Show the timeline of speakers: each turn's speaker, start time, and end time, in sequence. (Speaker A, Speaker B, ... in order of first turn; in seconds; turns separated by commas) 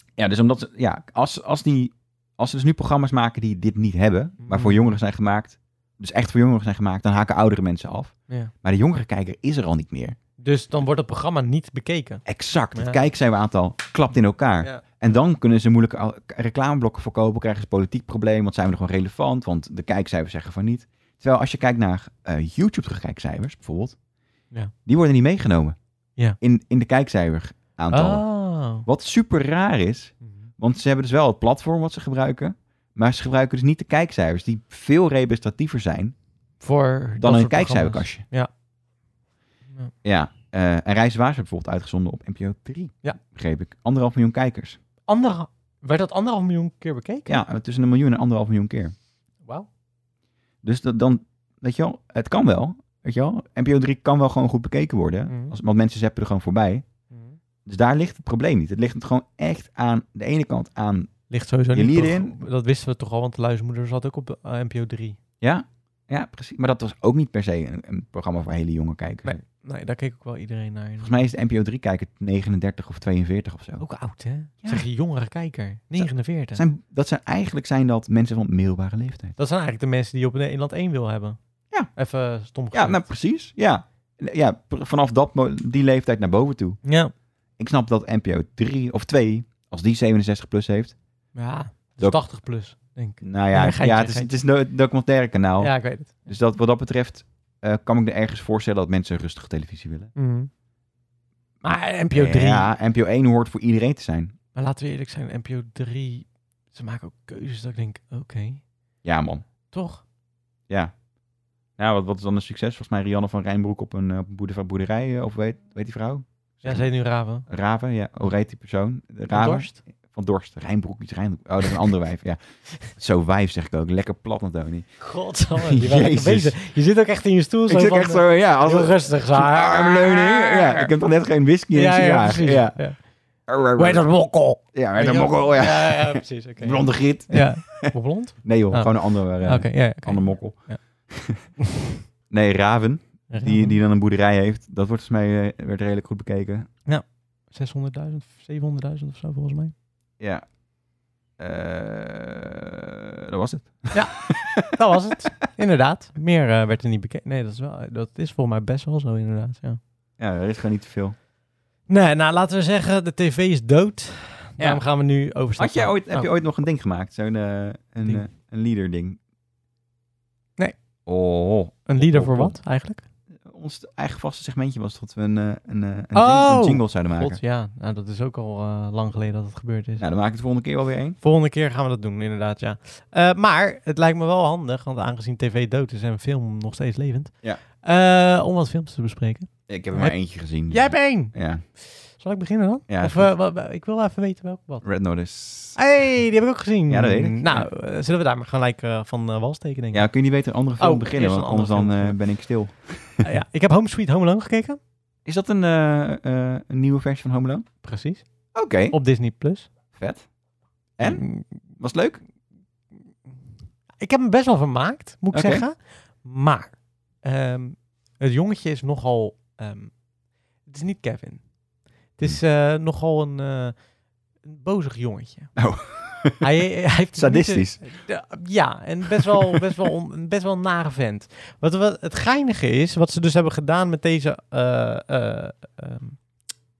Speaker A: 0.2-10.2, Speaker B: 4.4-5.0, Speaker B: 10.4-13.0, Speaker A: 12.3-24.0, Speaker B: 14.6-14.9, Speaker A: 24.9-25.8, Speaker A: 26.4-36.1, Speaker B: 27.9-28.9, Speaker B: 30.2-30.5, Speaker B: 36.6-38.5, Speaker A: 37.2-38.2, Speaker A: 40.0-44.8, Speaker B: 45.1-47.4, Speaker A: 47.3-48.9, Speaker A: 50.6-56.9, Speaker B: 55.3-55.6, Speaker B: 57.1-57.4, Speaker A: 57.7-61.1, Speaker B: 61.3-65.2, Speaker A: 61.7-62.4, Speaker A: 65.4-69.4, Speaker B: 69.2-71.2, Speaker A: 71.0-73.8, Speaker B: 73.8-76.6, Speaker A: 76.0-79.3, Speaker B: 79.4-81.4, Speaker B: 81.9-83.1, Speaker A: 82.7-86.8, Speaker B: 86.8-87.1, Speaker A: 87.6-91.0, Speaker B: 91.3-94.3, Speaker A: 93.2-100.1, Speaker B: 95.6-96.3, Speaker B: 100.2-100.5, Speaker B: 101.6-102.7, Speaker A: 102.1-104.3, Speaker B: 104.5-108.6, Speaker A: 109.0-109.4, Speaker B: 109.7-110.0, Speaker A: 110.7-111.0, Speaker A: 111.8-116.9, Speaker B: 116.6-117.5, Speaker A: 117.5-125.0, Speaker B: 119.3-119.8, Speaker B: 125.0-130.9, Speaker A: 125.5-126.6, Speaker A: 127.7-132.8, Speaker B: 131.7-133.0, Speaker A: 133.5-134.0, Speaker B: 133.8-140.8, Speaker A: 134.7-137.9, Speaker A: 138.4-141.4, Speaker A: 142.3-146.7, Speaker B: 143.3-143.8, Speaker B: 146.9-149.7, Speaker A: 151.4-154.7, Speaker B: 153.9-159.8, Speaker A: 160.2-161.2, Speaker B: 161.9-166.3, Speaker A: 165.6-169.2, Speaker A: 171.1-172.6, Speaker B: 171.9-173.0, Speaker A: 173.4-177.4, Speaker B: 176.1-180.1, Speaker A: 180.0-181.2, Speaker B: 181.2-190.2, Speaker A: 189.7-191.6, Speaker B: 190.7-194.9, Speaker A: 192.9-193.3, Speaker A: 194.8-195.8, Speaker B: 195.8-200.1, Speaker A: 196.9-197.7, Speaker A: 199.9-203.2, Speaker B: 200.8-202.2, Speaker B: 203.2-204.8, Speaker A: 205.2-207.7, Speaker B: 207.8-208.3, Speaker A: 208.5-209.0, Speaker B: 208.9-209.7, Speaker A: 209.9-210.3, Speaker A: 211.0-211.3, Speaker B: 211.0-211.6, Speaker A: 211.8-212.2, Speaker B: 214.0-219.9, Speaker A: 215.3-215.7, Speaker B: 220.7-221.4, Speaker B: 222.2-223.8, Speaker B: 224.4-225.5, Speaker A: 225.6-226.4, Speaker B: 226.4-236.2, Speaker A: 227.2-227.9, Speaker A: 229.2-229.6